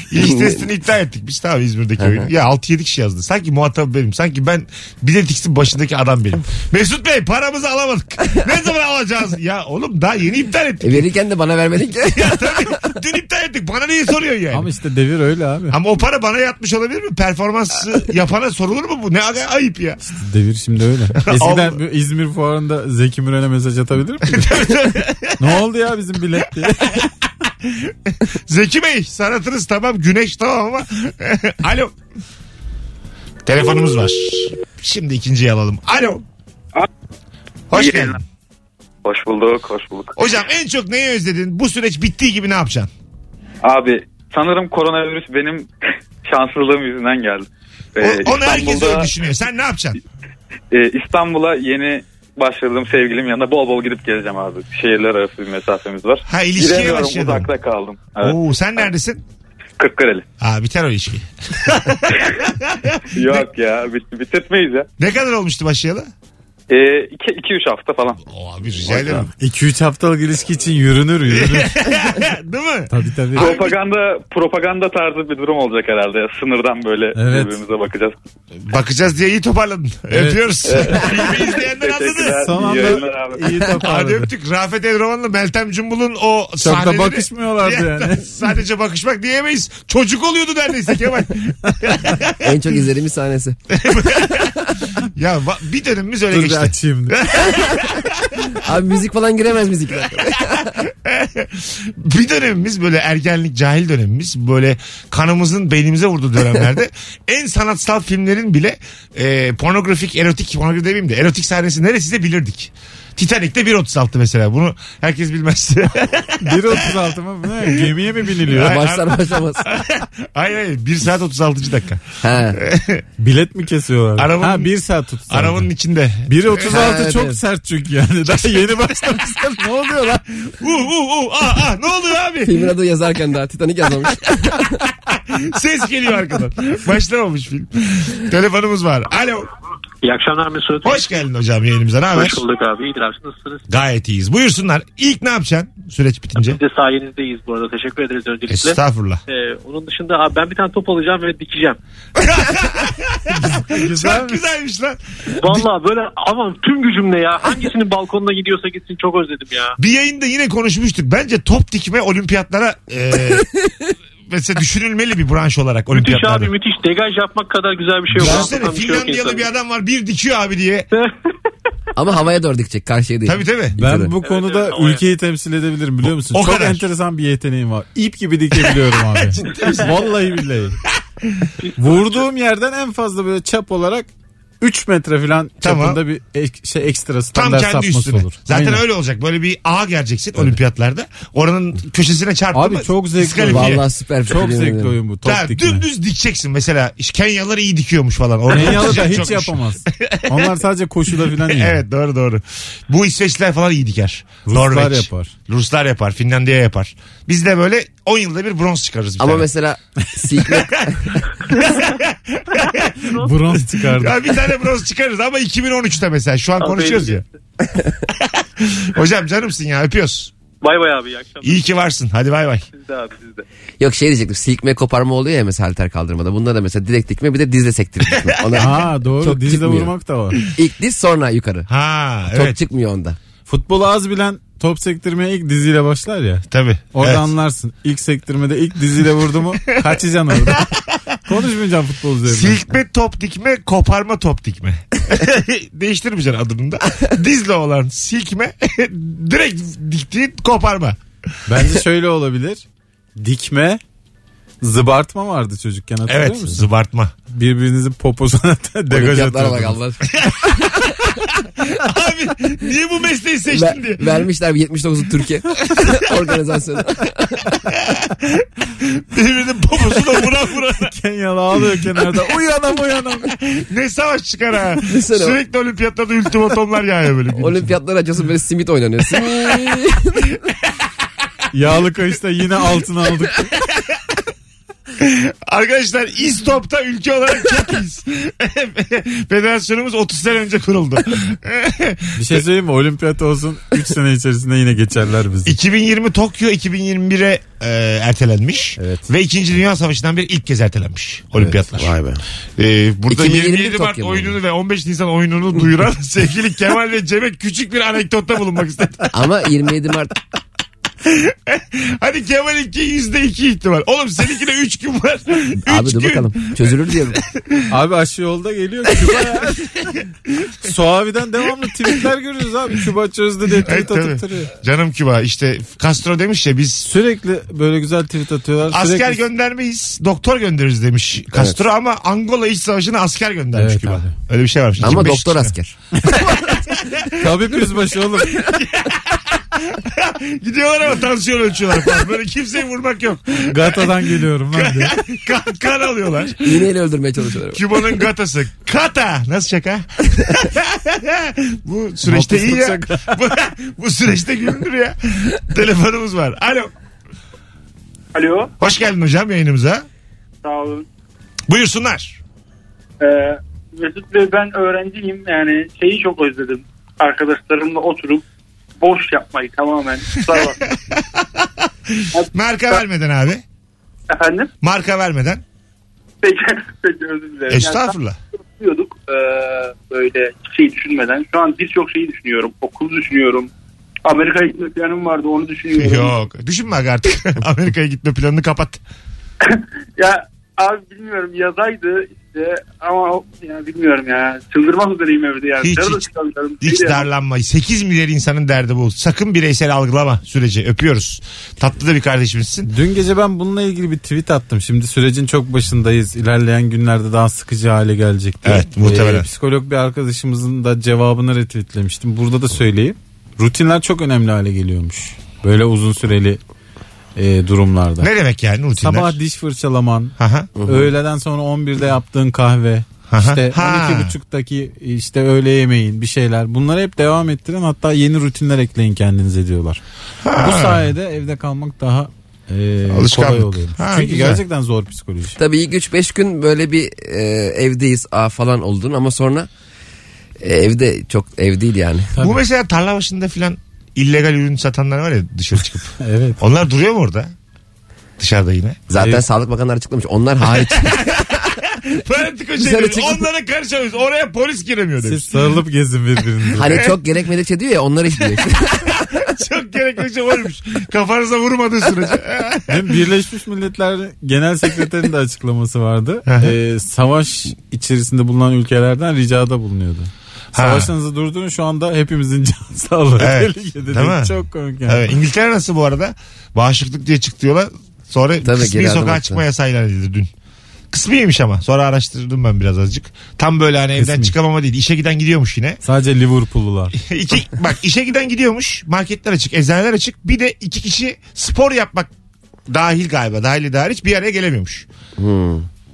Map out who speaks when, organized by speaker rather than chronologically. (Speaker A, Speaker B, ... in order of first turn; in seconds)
Speaker A: 0.1-11.1, 12.2-14.7, 15.7-20.0, 21.2-21.8, 24.3-25.4, 27.6-31.9, 33.5-36.2, 37.7-38.2, 40.1-42.9, 48.0-50.0, 56.3-57.5, 58.2-59.2, 60.4-63.5, 65.0-66.1, 68.2-69.3, 71.3-73.8, 78.6-82.8, 83.7-92.5, 93.8-98.6, 100.8-116.9, 118.5-123.0, 124.2-124.7, 125.3-126.9, 128.3-129.1, 130.4-132.6, 135.1-139.5, 140.8-142.4, 143.7-146.6, 148.5-149.2, 152.2-155.7, 159.8-163.5, 164.3-166.5, 168.1-170.9, 173.2-173.8, 176.3-176.8, 179.2-179.9, 185.6-186.0, 187.3-193.8, 195.2-200.4, 201.3-209.5, 210.4-213.2, 213.9-217.2, 218.1-220.3, 221.4-222.6, 231.7-232.6, 236.5-237.3, 240.5-240.8, 242.2-251.0, 256.1-257.1, 260.1-264.1, 267.7-270.9, 273.3-277.7, 285.0-292.4, 295.4-301.9, 302.6-309.1, 311.1-317.4, 323.6-326.9, 328.7-335.5, 338.3-346.6, 347.5-356.7, 358.6-359.8, 361.5-362.2, 370.3-373.4, 374.6-375.4, 377.5-378.2, 385.8-388.8, 395.6-396.0, 396.6-402.7, 408.4-409.2, 418.0-419.2, 420.2-420.5, 423.1-424.1, 430.2-430.9, 432.9-434.4, 442.2-447.3, 448.2-448.8, 450.4-455.5, 456.6-456.9, 458.3-462.8, 466.3-466.5, 470.6-470.9, 473.2-474.3, 474.9-480.3, 480.9-485.8, 487.0-492.1, 492.7-494.9
Speaker B: 0.1-0.7, 2.0-2.3, 10.8-12.8, 92.4-93.6, 97.5-97.8, 98.6-100.8, 118.5-119.8, 122.2-122.6, 126.6-127.4, 132.4-134.8, 163.3-163.7, 171.9-174.1, 193.4-195.0, 209.2-211.2, 223.8-229.9, 230.4-231.7, 232.3-233.2, 258.9-261.1, 263.5-267.6, 274.8-275.4, 277.3-280.4, 301.4-302.2, 303.1-304.4, 309.1-310.1, 315.6-317.2, 331.3-331.6, 334.8-335.8, 346.4-347.9, 420.6-420.9, 435.4-439.5, 440.4-442.1, 448.9-451.3, 452.6-453.3, 456.6-459.2, 478.4-479.4, 495.2-495.7
Speaker C: 14.5-15.8, 20.0-24.7, 25.4-27.1, 69.4-71.7, 72.9-73.5, 77.1-77.6, 80.1-80.4, 82.4-84.3, 86.6-88.3, 96.3-97.2, 116.4-118.8, 123.2-125.7, 126.2-130.2, 153.3-154.4, 173.8-180.8, 181.8-184.1, 184.6-188.8, 192.5-195.8, 198.5-201.8, 204.4-205.3, 213.2-214.2, 228.6-230.4, 233.5-240.7, 241.2-242.7, 251.4-252.6, 253.2-253.8, 254.6-256.7, 257.3-259.8, 270.8-273.3, 281.5-283.5, 292.2-295.6, 298.8-299.1, 317.7-319.7, 320.6-324.5, 326.8-329.2, 333.6-334.1, 336.0-336.5, 337.2-338.5, 343.5-344.9, 352.1-353.2, 402.7-416.4, 417.2-418.1, 418.8-429.8, 430.4-435.4, 442.2-442.4, 446.0-446.4, 449.0-449.2, 455.0-456.9, 462.7-475.0, 483.9-484.3, 485.8-486.9
Speaker D: 37.7-38.2, 39.0-40.1, 43.6-45.7, 46.2-49.1, 50.7-58.9, 59.8-60.2, 63.1-64.9, 66.7-68.2, 68.8-69.3, 73.4-78.1, 80.7-83.4
Speaker E: 140.0-141.1, 142.1-143.6, 146.3-151.8, 155.3-159.8, 165.9-169.5, 174.2-175.0, 216.6-217.2, 220.6-221.7, 222.7-223.4
Speaker F: 358.1-358.5, 360.4-360.8, 363.0-368.2, 368.8-370.6, 372.1-372.8, 374.1-374.5, 376.2-377.9, 378.6-383.5, 384.1-386.2, 389.4-397.1